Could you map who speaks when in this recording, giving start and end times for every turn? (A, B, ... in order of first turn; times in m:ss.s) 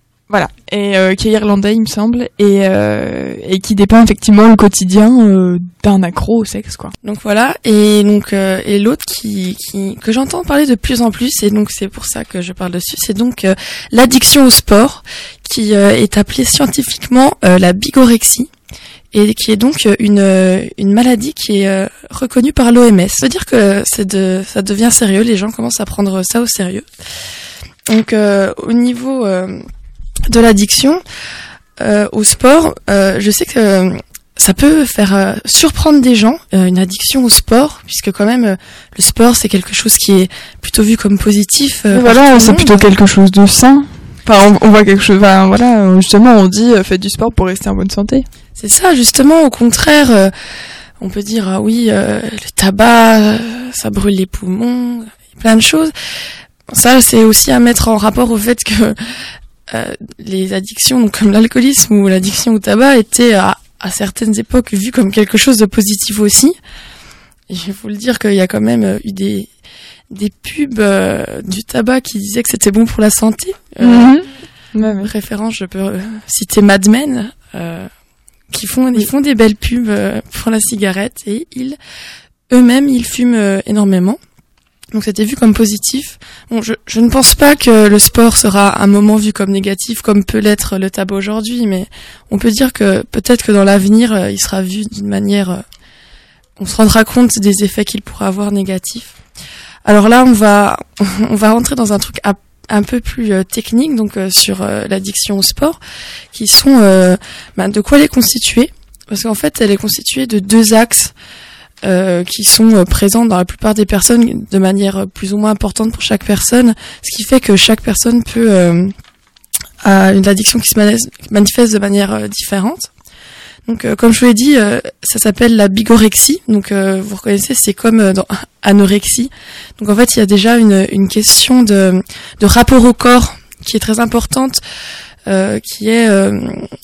0:00.3-0:06.9 A
0:07.0-0:18.5 B
0:19.1-0:26.9 B
0:27.9-0:29.7 B
0:30.3-0:31.0 B
0:31.8-0:42.7 B
0:41.9-0:48.3 A
0:48.6-0:50.3 B
0:51.0-0:55.9 B
0:56.7-0:59.0 B
0:59.7-1:06.6 B
1:07.5-1:09.5 B
1:10.1-1:14.2 B
1:13.8-1:15.1 A
1:14.9-1:17.9 B
1:18.5-1:21.8 B
1:22.5-1:24.2 B
1:24.9-1:35.6 B
1:36.6-1:39.2 B
1:39.9-1:45.8 B
1:46.3-1:51.1 B
1:51.8-1:58.9 B
1:59.8-2:02.9 B
2:03.7-2:14.6 B
2:15.3-2:16.7 B